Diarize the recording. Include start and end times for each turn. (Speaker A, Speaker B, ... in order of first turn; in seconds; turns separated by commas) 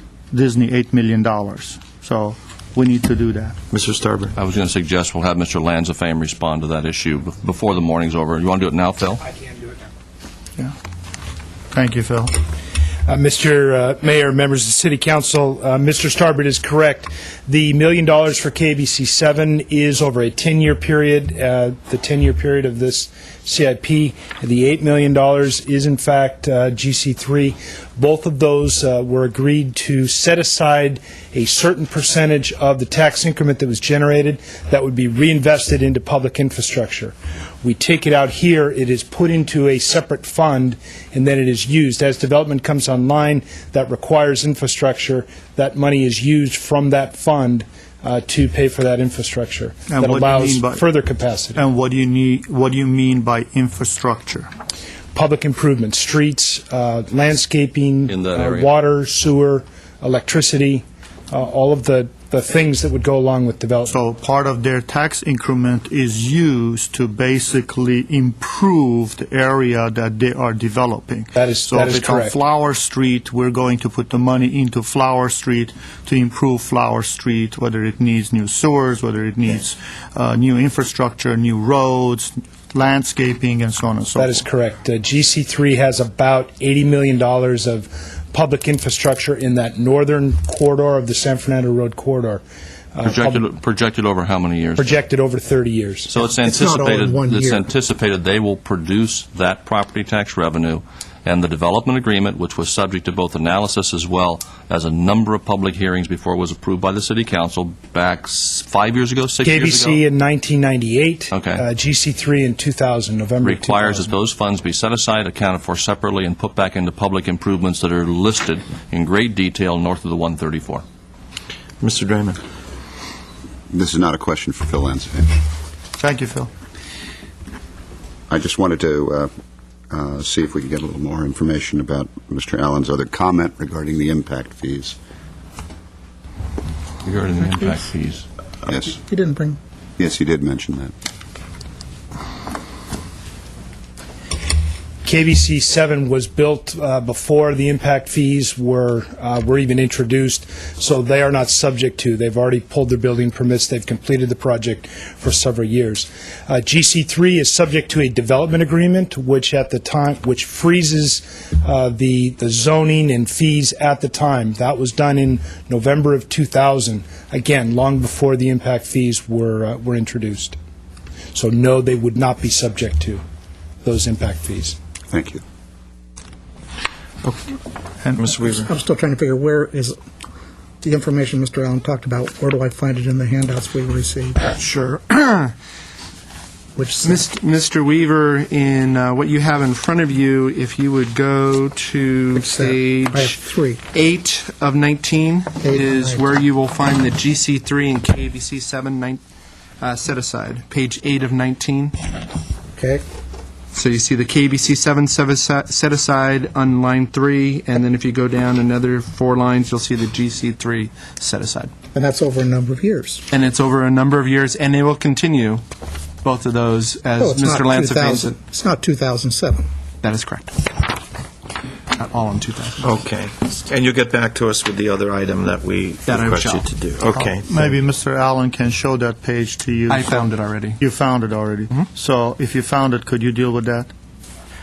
Speaker A: 0.3-3.6, Speaker B: 3.7-4.4, Speaker C: 4.3-9.2, Speaker A: 11.7-12.3, Speaker D: 13.1-51.6, Speaker A: 49.9-50.8, Speaker A: 51.5-54.5, Speaker D: 55.1-64.0, Speaker C: 58.0-58.7, Speaker A: 63.9-84.4, Speaker D: 71.3-72.4, Speaker D: 84.2-92.4, Speaker D: 92.9-93.4, Speaker C: 93.0-95.0, Speaker D: 94.8-96.2, Speaker C: 96.1-110.0, Speaker E: 96.3-97.7, Speaker D: 109.4-114.1, Speaker C: 111.3-111.6, Speaker C: 113.4-120.8, Speaker B: 121.8-122.4, Speaker F: 123.7-125.4, Speaker A: 126.0-126.5, Speaker F: 128.3-129.3, Speaker F: 129.9-134.9, Speaker C: 137.0-138.2, Speaker F: 138.7-139.0, Speaker E: 138.9-139.6, Speaker F: 140.0-140.9, Speaker D: 145.0-170.6, Speaker D: 171.3-173.2, Speaker D: 173.8-174.8, Speaker F: 175.1-175.4, Speaker B: 178.1-178.7, Speaker E: 178.4-179.9, Speaker E: 180.8-184.6, Speaker G: 184.6-185.5, Speaker E: 186.8-187.2, Speaker G: 187.0-199.2, Speaker E: 192.3-193.8, Speaker E: 195.6-196.4, Speaker G: 199.8-202.0, Speaker E: 202.8-203.0, Speaker G: 203.7-211.7, Speaker E: 211.9-213.2, Speaker G: 213.3-215.6, Speaker G: 216.2-218.4, Speaker E: 217.2-219.7, Speaker G: 220.0-220.7, Speaker G: 221.9-222.8, Speaker B: 222.8-227.8, Speaker G: 226.1-226.7, Speaker A: 227.1-233.9, Speaker G: 229.9-230.8